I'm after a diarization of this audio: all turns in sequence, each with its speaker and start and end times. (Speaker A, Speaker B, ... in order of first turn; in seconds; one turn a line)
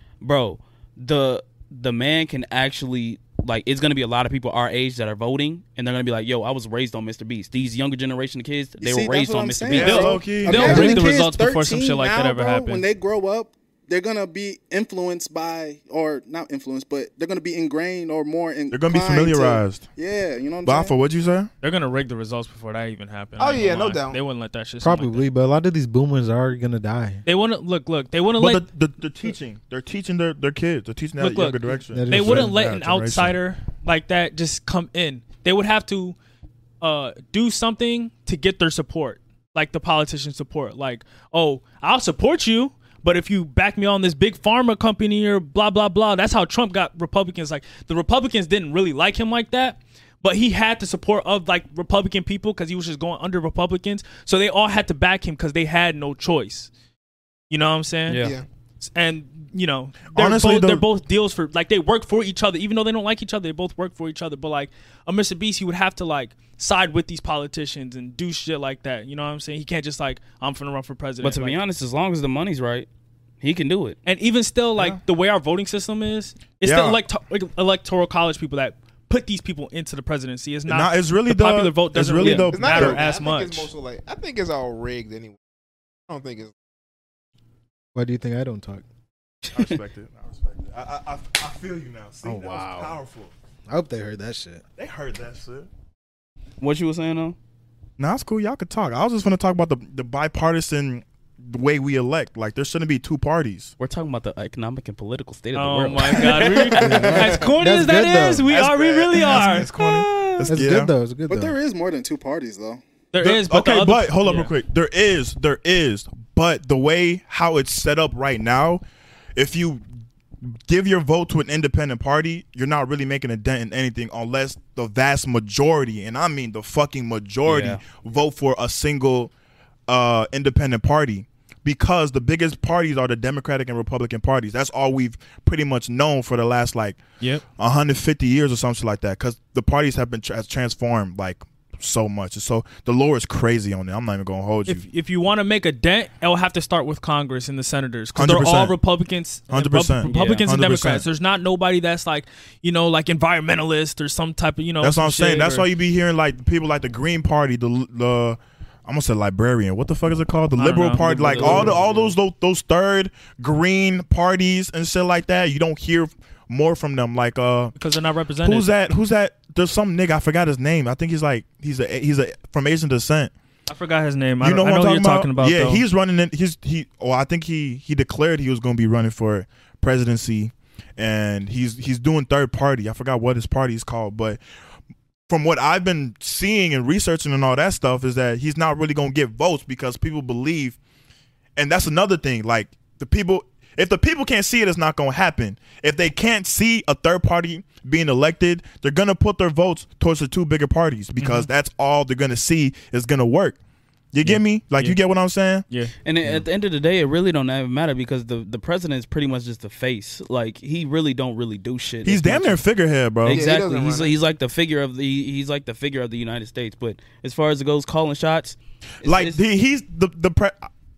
Speaker A: 0.2-10.6
Speaker B: 8.8-20.9
Speaker C: 9.7-10.9
Speaker D: 9.9-12.8
Speaker C: 18.7-19.9
Speaker C: 20.6-21.5
Speaker D: 21.6-25.3
Speaker E: 23.4-24.2
Speaker F: 24.8-27.2
Speaker D: 27.2-28.6
Speaker C: 28.4-33.4
Speaker D: 31.2-36.1
Speaker F: 31.9-32.6
Speaker D: 36.8-56.7
Speaker D: 57.5-58.2
Speaker A: 58.1-58.4
Speaker D: 58.8-71.6
Speaker C: 60.1-60.8
Speaker A: 71.2-72.9
Speaker A: 73.4-74.0
Speaker D: 74.0-83.7
Speaker C: 76.6-77.0
Speaker C: 80.7-83.0
Speaker E: 82.5-85.4
Speaker E: 86.1-86.5
Speaker F: 87.9-88.8
Speaker C: 89.5-93.3
Speaker F: 92.2-93.0
Speaker F: 93.7-94.6
Speaker C: 94.8-95.7
Speaker A: 96.6-97.4
Speaker C: 98.0-103.7
Speaker A: 103.8-106.8
Speaker D: 105.5-110.5
Speaker E: 106.3-107.5
Speaker F: 106.8-108.5
Speaker E: 108.5-110.4
Speaker C: 108.5-110.9
Speaker F: 110.5-111.5
Speaker B: 111.3-112.8
Speaker D: 113.1-114.5
Speaker C: 113.2-118.8
Speaker C: 119.3-119.8
Speaker C: 120.6-129.3
Speaker A: 127.4-127.8
Speaker C: 129.9-137.0
Speaker C: 137.6-144.8
Speaker D: 144.7-155.7
Speaker C: 148.1-148.8
Speaker C: 149.5-151.0
Speaker A: 150.0-150.5
Speaker C: 154.8-167.7
Speaker D: 160.6-161.8
Speaker A: 161.2-162.1
Speaker D: 167.8-168.7
Speaker C: 168.4-173.3
Speaker D: 173.7-175.8
Speaker C: 174.4-184.4
Speaker C: 185.3-190.8
Speaker C: 191.6-203.6
Speaker D: 201.2-201.5
Speaker C: 204.1-205.6
Speaker D: 204.2-205.0
Speaker A: 206.0-212.6
Speaker C: 212.0-213.4
Speaker A: 213.2-219.4
Speaker E: 213.3-214.1
Speaker C: 219.0-220.7